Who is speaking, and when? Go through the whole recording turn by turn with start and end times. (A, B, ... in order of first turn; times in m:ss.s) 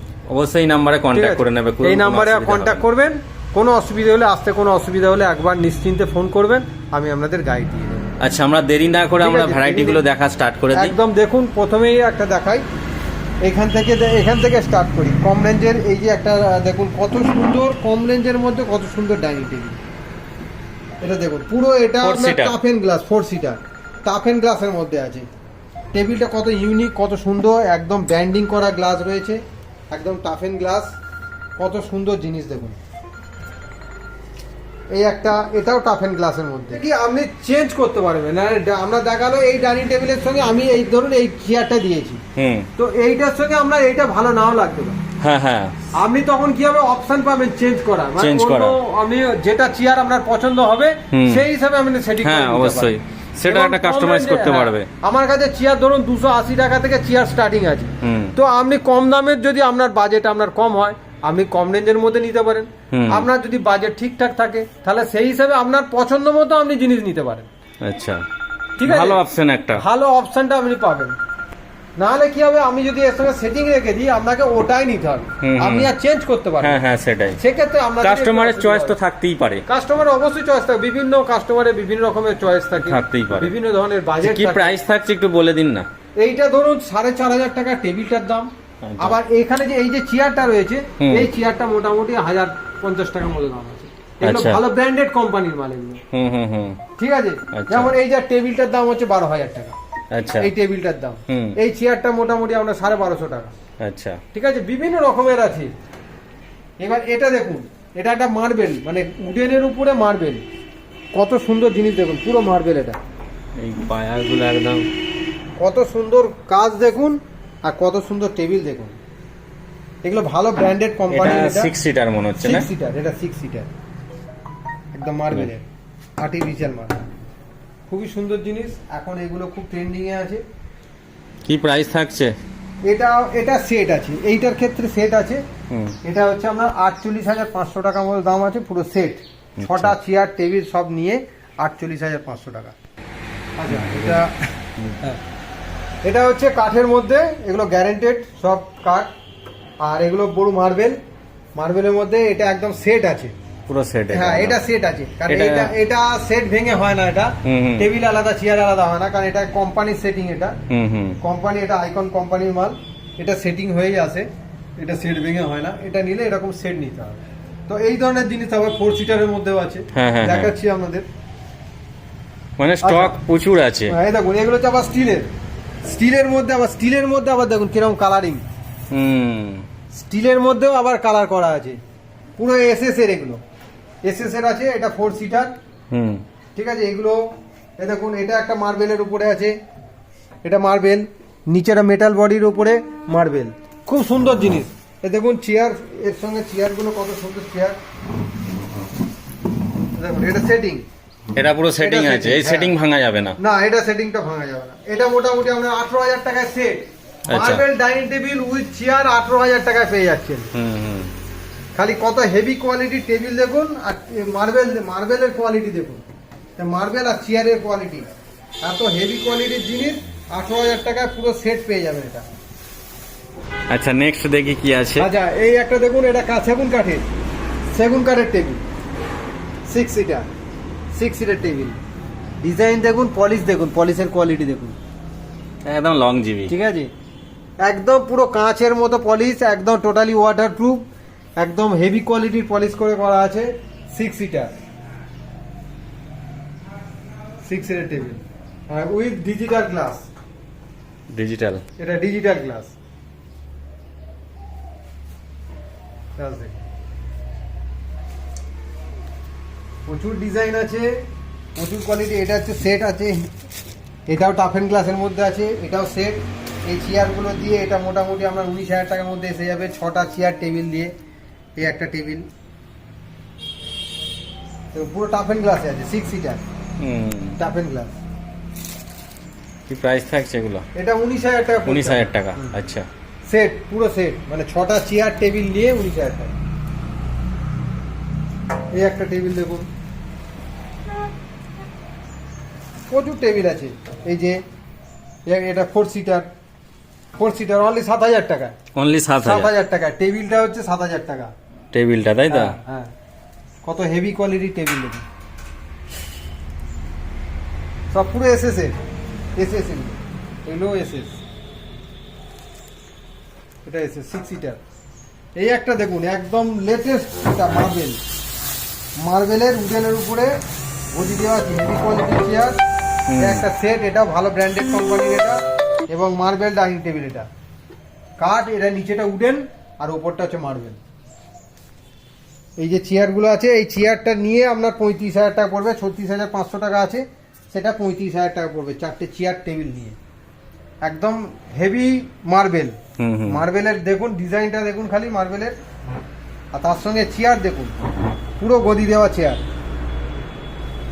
0:00.3-0:02.8 A
0:01.1-0:08.1 B
0:08.2-0:11.0 A
0:09.2-0:10.0 B
0:10.7-0:12.6 B
0:13.4-0:19.8 B
0:21.0-0:25.3 B
0:22.0-0:22.6 A
0:25.9-0:30.9 B
0:31.6-0:32.8 B
0:34.9-0:42.2 B
0:42.4-0:42.7 A
0:42.8-0:45.0 B
0:45.2-0:45.8 A
0:45.9-0:52.9 B
0:48.2-0:48.8 A
0:51.1-0:51.4 A
0:52.2-0:54.9 A
0:53.5-1:07.5 B
0:58.0-0:58.3 A
1:02.9-1:03.3 A
1:07.8-1:08.2 A
1:08.8-1:09.2 B
1:08.8-1:09.8 A
1:09.7-1:11.2 B
1:12.0-1:16.8 B
1:15.4-1:15.9 A
1:16.6-1:17.4 A
1:17.4-1:19.0 B
1:18.0-1:19.6 A
1:19.6-1:24.8 B
1:22.8-1:23.5 A
1:24.2-1:25.9 A
1:26.2-1:36.0 B
1:28.8-1:29.2 A
1:31.0-1:31.3 A
1:34.2-1:34.6 A
1:36.1-1:36.8 A
1:37.0-1:39.8 B
1:37.5-1:37.9 A
1:40.1-1:40.5 A
1:40.3-1:43.5 B
1:41.3-1:41.6 A
1:43.8-1:44.2 A
1:44.3-1:45.7 B
1:46.8-1:50.4 B
1:51.1-1:53.0 B
1:53.6-1:54.9 A
1:55.6-1:59.0 B
2:00.0-2:01.7 B
2:01.1-2:02.7 A
2:02.4-2:03.7 B
2:04.9-2:05.7 B
2:06.2-2:07.0 B
2:07.9-2:10.4 B
2:11.4-2:12.4 A
2:12.8-2:15.4 B
2:15.7-2:16.0 A
2:16.0-2:22.7 B
2:19.6-2:19.9 A
2:23.6-2:24.5 B
2:23.7-2:24.2 A
2:24.8-2:25.0 A
2:26.0-2:29.1 B
2:29.8-2:31.0 B
2:31.6-2:33.3 B
2:33.7-2:34.6 A
2:34.1-2:40.6 B
2:35.3-2:35.7 A
2:37.4-2:37.9 A
2:40.7-2:41.2 A
2:41.2-2:51.1 B
2:49.9-2:50.5 A
2:52.6-2:54.0 A
2:52.8-2:53.2 B
2:53.9-2:55.3 B
2:55.8-2:58.4 B
2:58.9-2:59.7 A
2:59.9-3:01.8 B
3:02.4-3:03.4 B
3:04.0-3:05.5 B
3:05.9-3:06.2 A
3:06.5-3:07.2 B
3:07.8-3:09.6 B
3:10.4-3:17.8 B
3:20.0-3:20.8 B
3:21.4-3:23.4 A
3:21.8-3:22.7 B
3:23.4-3:30.5 B
3:27.3-3:27.6 A
3:30.5-3:31.1 A
3:31.8-3:36.0 B
3:36.6-3:42.2 B
3:43.7-3:45.1 A
3:45.0-3:47.1 B
3:47.7-3:48.6 B
3:49.7-3:50.3 B
3:50.9-3:51.8 B
3:52.4-3:54.8 B
3:55.6-3:56.5 A
3:56.5-3:56.9 B
3:57.6-4:00.8 B
4:01.4-4:04.5 B
4:07.4-4:10.1 B
4:11.1-4:11.6 A
4:11.8-4:12.7 B
4:16.2-4:16.6 B
4:19.8-4:21.0 B
4:21.6-4:23.3 B
4:24.1-4:30.9 B
4:31.6-4:32.3 B
4:34.7-4:36.4 B
4:36.8-4:37.4 A
4:37.4-4:38.0 B
4:39.7-4:40.6 A
4:40.7-4:42.5 B
4:41.6-4:42.9 A
4:43.3-4:46.3 B
4:48.7-4:49.7 B
4:52.9-4:54.4 B
4:55.3-4:56.3 B
4:57.2-4:58.6 B
4:58.7-4:59.5 A
4:59.2-5:01.3 B
5:01.7-5:02.6 A
5:02.3-5:02.9 B
5:03.6-5:05.0 B
5:07.9-5:08.8 B
5:09.4-5:11.2 B
5:13.6-5:14.6 B
5:15.4-5:18.0 B
5:19.0-5:20.3 B
5:20.9-5:22.6 B
5:23.1-5:23.4 A
5:23.2-5:27.3 B
5:28.2-5:30.8 B
5:32.6-5:40.0 B
5:40.8-5:45.6 B
5:43.0-5:43.4 A
5:46.5-5:47.7 B
5:48.4-5:49.4 B